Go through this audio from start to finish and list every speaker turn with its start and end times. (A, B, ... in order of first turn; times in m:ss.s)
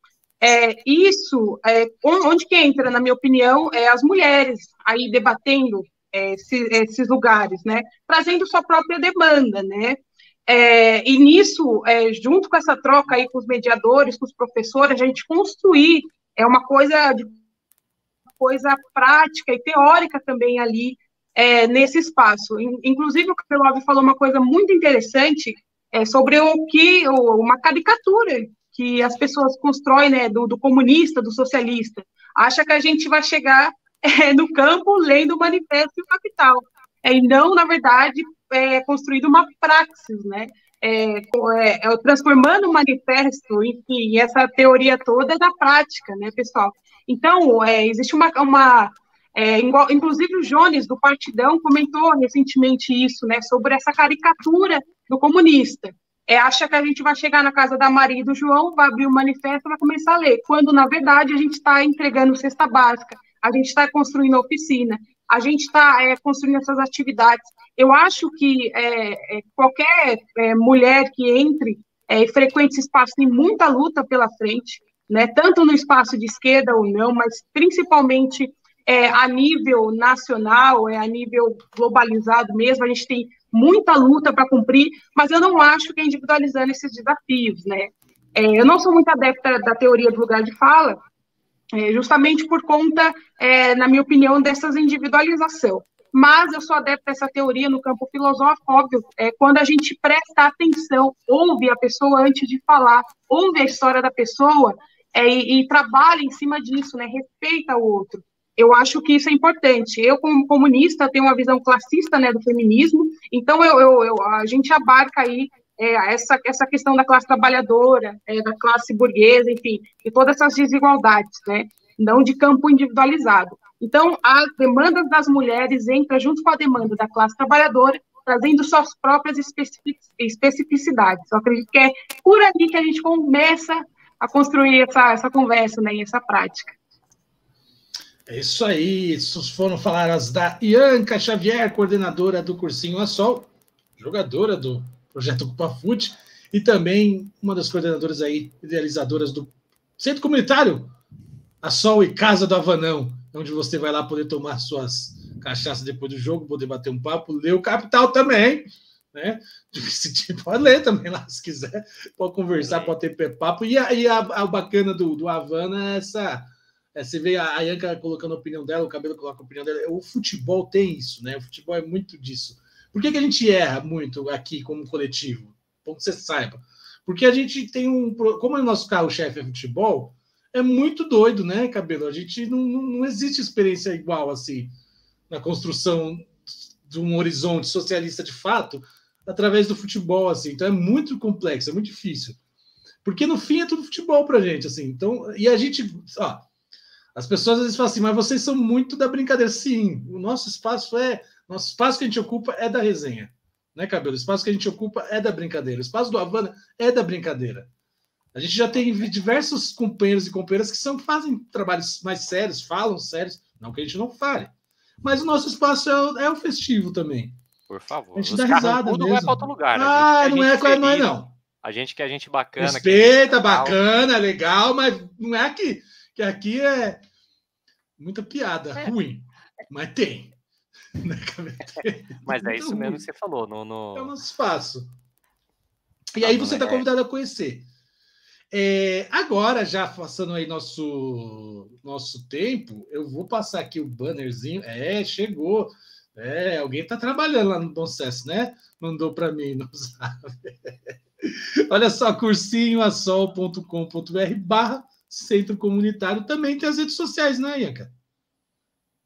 0:00.4-0:17.3 A
0:18.4-1:31.0 A
1:31.7-2:16.7 A
2:18.3-2:30.9 B
2:31.6-3:04.7 B
2:42.6-2:42.9 C
3:05.3-3:12.4 B
3:13.0-3:16.4 B
3:17.1-3:27.7 B
3:28.3-3:34.5 B
3:35.0-3:37.4 B
3:37.7-3:43.8 C
3:38.2-3:41.3 B
3:42.6-3:47.0 B
3:48.0-3:50.3 B
3:51.0-3:53.0 B
3:52.2-3:54.1 C
3:53.9-3:54.9 B
3:56.1-3:57.7 B
3:56.2-3:56.8 C
3:58.5-4:17.9 B